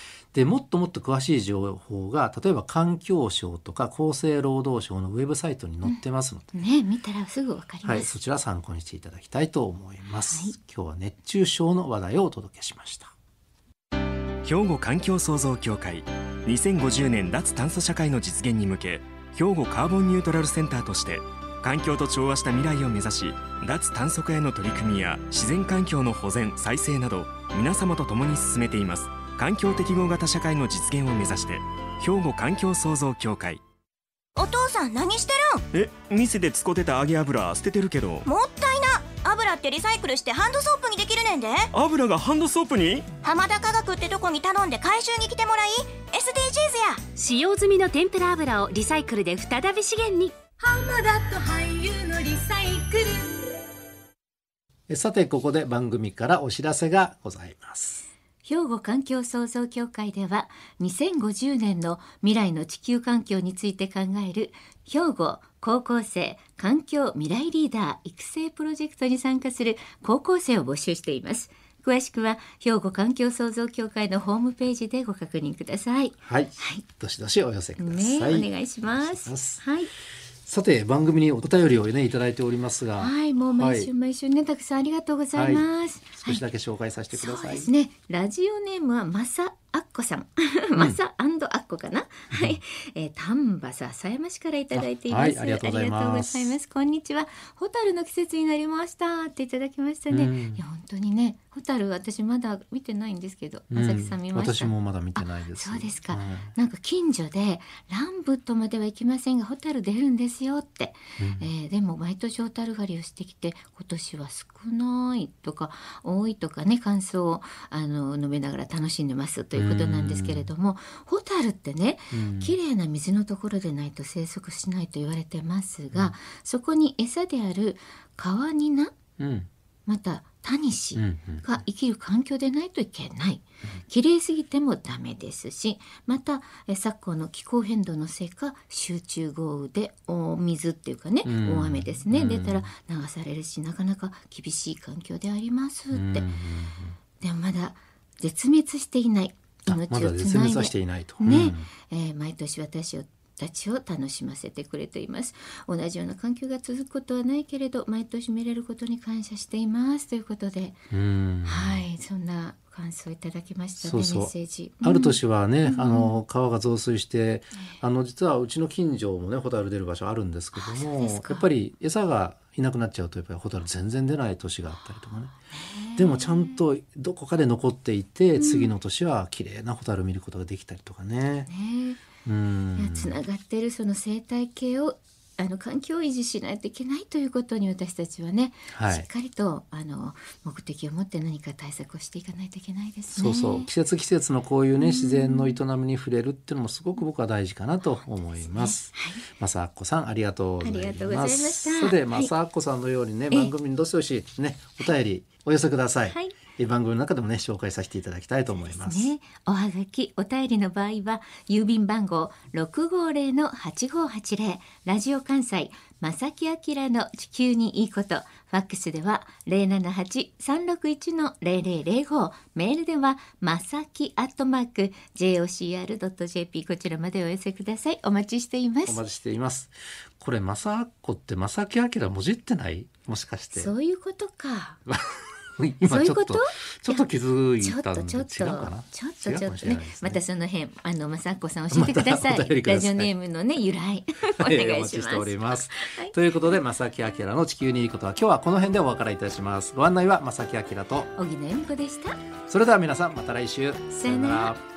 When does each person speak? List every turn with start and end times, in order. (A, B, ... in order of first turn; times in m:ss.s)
0:00.3-0:06.6 A
0:06.5-0:08.2 B
0:07.8-0:13.1 A
0:10.3-0:10.6 B
0:14.4-0:33.6 C
0:34.4-0:35.6 D
0:35.7-0:38.3 C
0:38.3-0:41.7 D
0:41.7-0:43.1 C
0:43.2-0:47.1 D
0:47.2-0:50.4 E
0:50.6-0:53.5 D
0:54.9-0:58.1 A
0:58.4-1:16.8 B
1:16.2-1:19.6 A
1:17.8-1:19.9 B
1:20.4-1:23.9 A
1:23.0-1:26.4 B
1:25.3-1:25.7 A
1:26.2-1:27.7 A
1:27.1-2:08.9 B
1:32.3-1:32.6 A
1:34.7-1:36.6 A
1:40.1-1:40.6 A
1:43.7-1:46.5 A
1:51.2-1:51.5 A
1:59.5-2:00.5 A
2:02.1-2:02.6 A
2:09.2-2:09.5 A
2:09.9-2:26.3 B
2:11.0-2:11.6 A
2:21.2-2:22.7 A
2:25.9-2:27.0 A
2:27.2-2:40.8 B
2:29.7-2:31.7 A
2:40.9-2:41.8 A
2:41.4-2:46.2 B
2:43.8-2:55.4 A
2:50.5-2:51.5 B
2:55.5-2:56.6 B
2:56.0-3:01.5 A
2:58.4-2:58.7 B
3:01.5-3:02.0 B
3:02.2-3:03.2 A
3:02.8-3:13.7 B
3:08.7-3:09.1 A
3:13.1-3:29.1 A
3:14.8-3:15.6 B
3:17.8-3:19.2 B
3:20.6-3:22.3 B
3:26.1-3:26.4 B
3:28.6-3:49.0 B
3:48.8-3:53.7 A
3:53.5-3:54.8 B
3:55.6-4:00.2 A
3:55.8-3:57.1 B
3:57.6-4:06.2 B
4:01.7-4:03.1 A
4:04.4-4:11.1 A
4:11.2-4:12.2 B
4:12.5-4:14.6 A
4:13.9-4:14.6 B